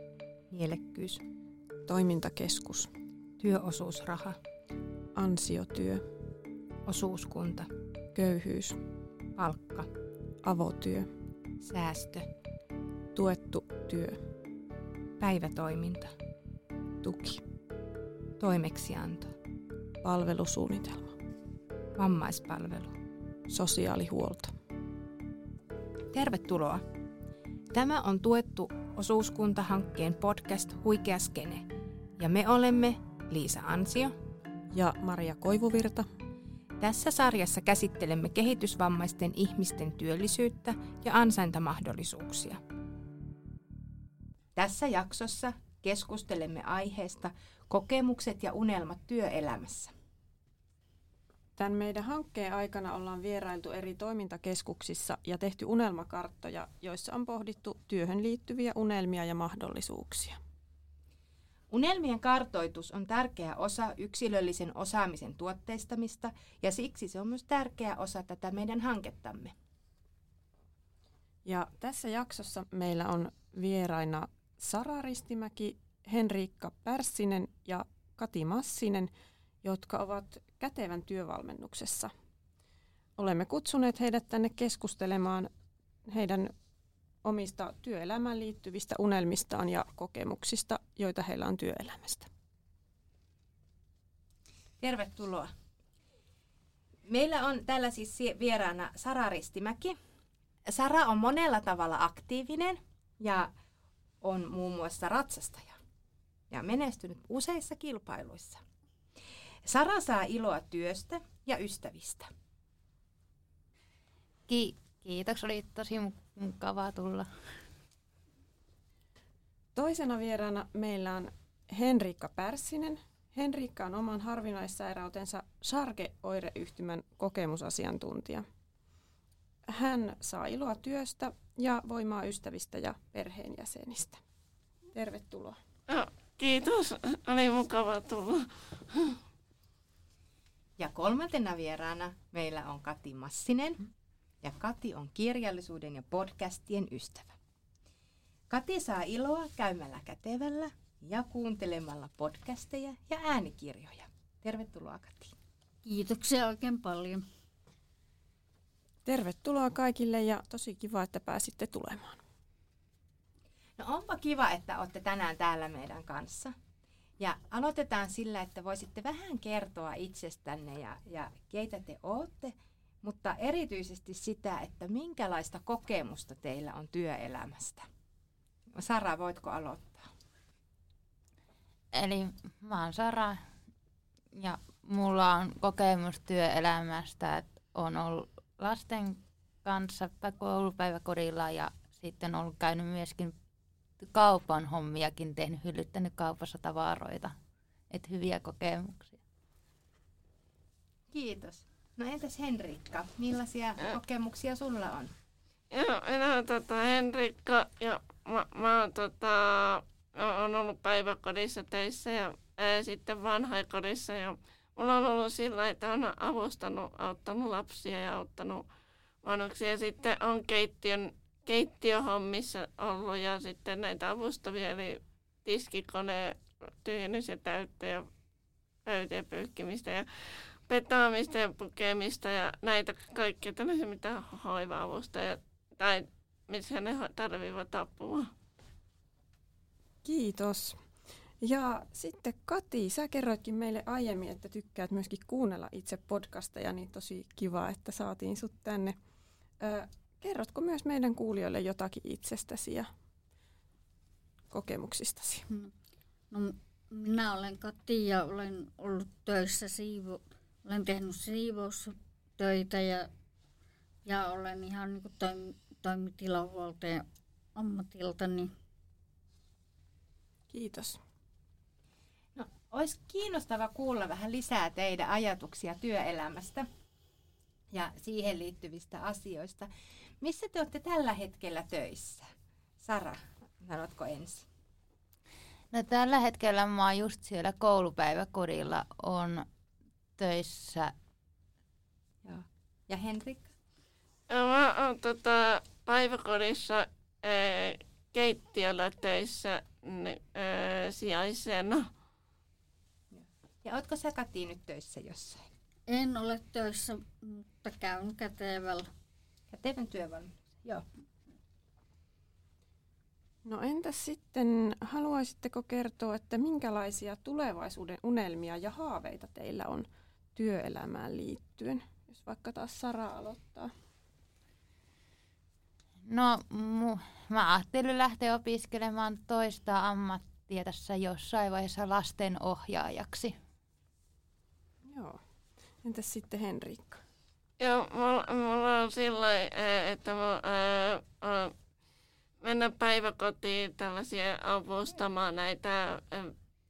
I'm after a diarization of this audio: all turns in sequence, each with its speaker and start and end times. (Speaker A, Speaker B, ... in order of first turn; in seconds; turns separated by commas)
Speaker A: 0.5-1.2, Speaker B: 1.9-2.9, Speaker A: 3.4-4.4, Speaker B: 5.2-6.1, Speaker A: 6.9-7.7, Speaker B: 8.1-8.8, Speaker A: 9.4-9.9, Speaker B: 10.4-11.1, Speaker A: 11.6-12.3, Speaker B: 13.1-14.2, Speaker A: 15.2-16.1, Speaker B: 17.0-17.4, Speaker A: 18.4-19.3, Speaker B: 20.0-21.1, Speaker A: 22.0-22.9, Speaker B: 23.5-24.5, Speaker A: 26.1-26.8, Speaker A: 27.7-31.7, Speaker A: 32.2-34.1, Speaker B: 34.7-36.1, Speaker A: 36.8-42.6, Speaker A: 44.6-49.9, Speaker B: 51.6-60.4, Speaker A: 61.7-69.5, Speaker B: 71.5-79.1, Speaker B: 79.6-82.1, Speaker B: 83.2-85.5, Speaker B: 86.1-86.5, Speaker B: 87.2-92.3, Speaker A: 94.8-95.5, Speaker A: 97.1-100.0, Speaker A: 100.7-103.5, Speaker A: 104.2-105.8, Speaker A: 106.5-108.6, Speaker A: 109.7-112.3, Speaker C: 114.5-117.3, Speaker B: 119.8-128.5, Speaker B: 129.7-134.2, Speaker B: 134.9-135.6, Speaker D: 135.9-139.2, Speaker A: 140.8-143.9, Speaker A: 144.4-147.3, Speaker A: 148.5-155.3, Speaker E: 155.8-157.2, Speaker B: 159.1-162.2, Speaker A: 163.8-166.6, Speaker A: 167.2-177.9, Speaker A: 178.7-180.1, Speaker C: 181.9-183.4, Speaker C: 184.3-193.3, Speaker C: 194.0-197.4, Speaker C: 197.9-199.2, Speaker A: 201.1-205.1, Speaker D: 205.7-218.7, Speaker D: 219.2-228.1, Speaker D: 228.9-230.1, Speaker D: 230.7-238.3, Speaker B: 240.0-240.9, Speaker B: 241.4-249.0, Speaker B: 249.6-252.9, Speaker B: 254.5-255.5, Speaker E: 256.3-263.1, Speaker E: 264.1-267.1, Speaker E: 267.6-268.5, Speaker B: 270.5-271.0, Speaker A: 272.4-276.7, Speaker A: 277.7-279.7, Speaker A: 280.2-282.3, Speaker A: 282.8-284.5, Speaker C: 285.7-289.5, Speaker C: 290.2-290.9, Speaker A: 292.2-293.5, Speaker D: 294.3-301.9, Speaker A: 303.1-305.4, Speaker E: 305.9-308.9, Speaker A: 309.5-310.9, Speaker B: 313.4-323.7, Speaker C: 326.1-333.4, Speaker B: 334.9-335.2, Speaker B: 335.8-337.0, Speaker D: 337.6-341.5, Speaker D: 342.4-346.3